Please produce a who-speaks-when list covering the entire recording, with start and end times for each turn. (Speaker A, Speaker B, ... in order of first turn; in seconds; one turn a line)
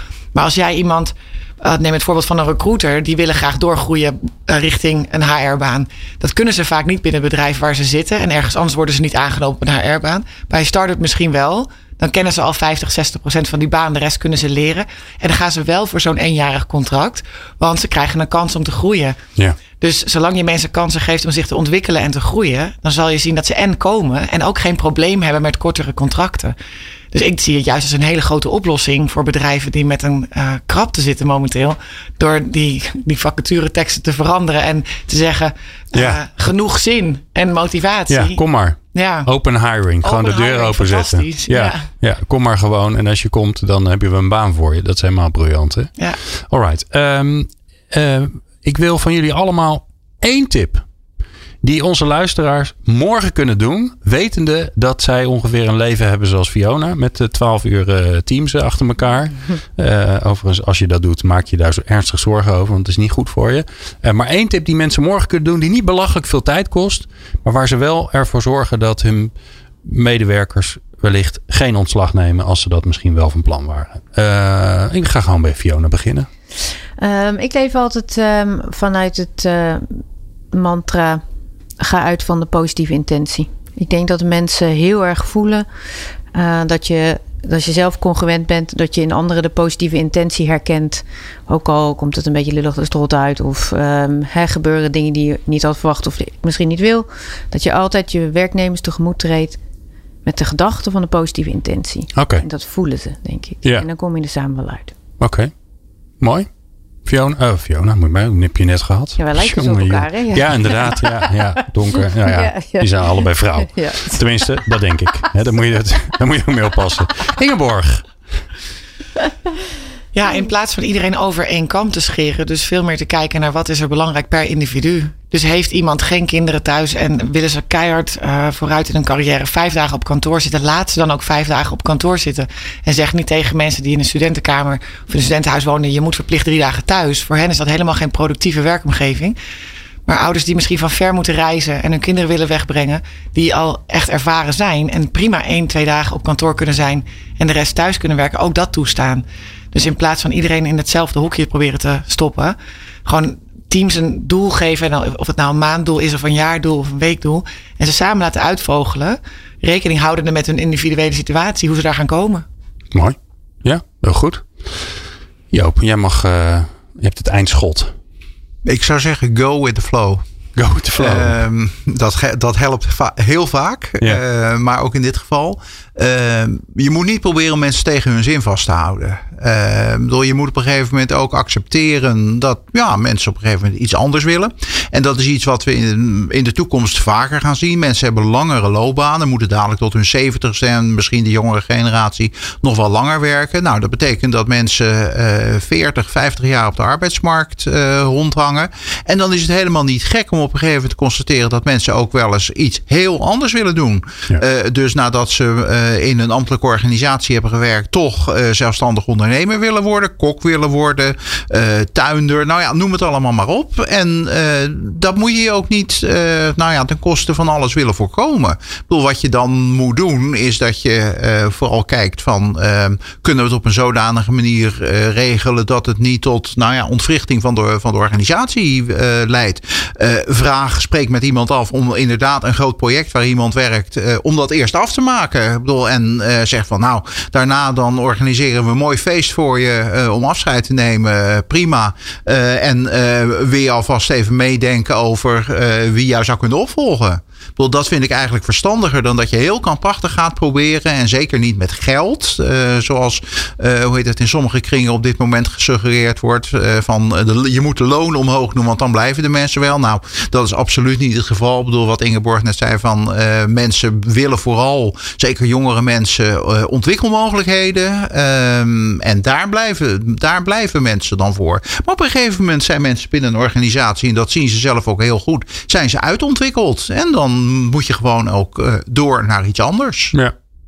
Speaker A: 0.3-19.2
Speaker A: 19.8-26.6
Speaker A: 27.1-38.4
Speaker B: 35.9-36.2
Speaker B: 38.1-45.9
Speaker A: 39.0-39.3
Speaker A: 40.0-41.8
Speaker B: 46.5-50.8
Speaker B: 51.6-69.3
Speaker B: 69.8-76.3
Speaker C: 77.0-81.2
Speaker C: 81.8-85.7
Speaker C: 86.3-99.6
Speaker C: 100.2-104.9
Speaker B: 102.2-102.5
Speaker B: 105.2-105.5
Speaker B: 106.2-106.5
Speaker B: 107.1-118.1
Speaker C: 109.2-111.3
Speaker C: 112.1-114.8
Speaker A: 120.1-139.4
Speaker A: 140.1-162.4
Speaker B: 162.9-164.9
Speaker B: 165.5-167.9
Speaker D: 168.7-170.2
Speaker B: 170.6-171.4
Speaker D: 171.0-280.1